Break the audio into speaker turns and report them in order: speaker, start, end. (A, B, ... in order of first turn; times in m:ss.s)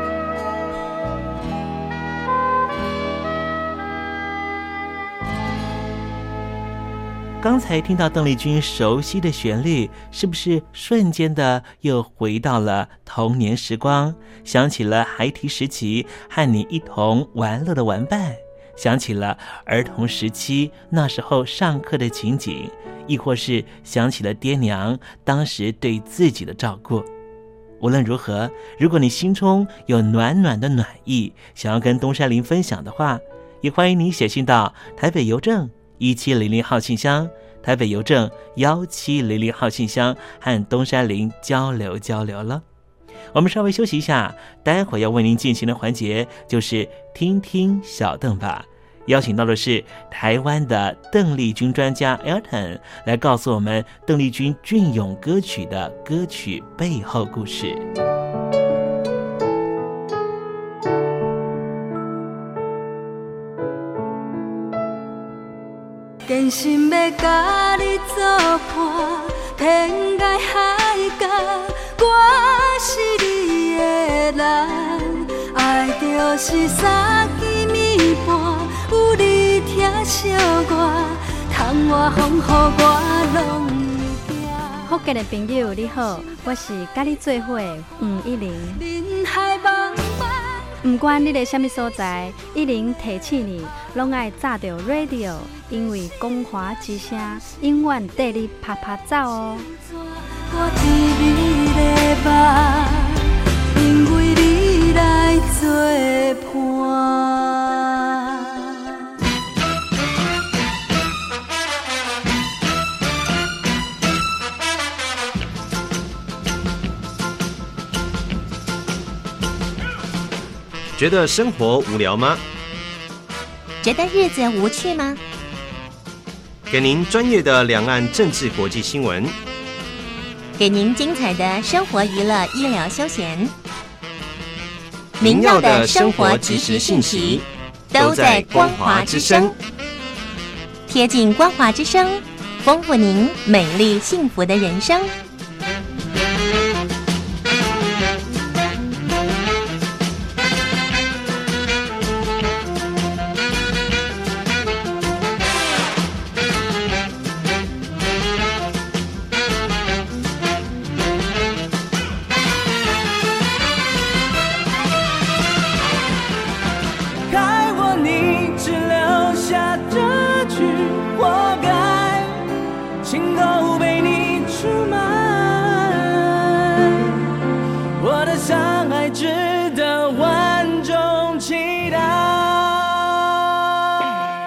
0:07.4-0:27.1 A
0:27.8-0:42.6 A
0:43.3-0:57.8 A
1:06.3-1:24.9 B
1:24.8-1:28.8 C
1:28.7-1:30.6 B
1:30.8-1:39.7 C
1:40.2-1:48.9 B
2:01.0-2:02.4 D
2:03.8-2:05.2 E
2:06.7-2:09.4 D
2:10.6-2:13.5 E
2:15.2-2:19.5 E
2:15.2-2:19.5 D
2:20.9-2:25.1 E
2:47.3-2:52.4 F
2:53.0-2:56.7 F
2:58.0-3:03.1 F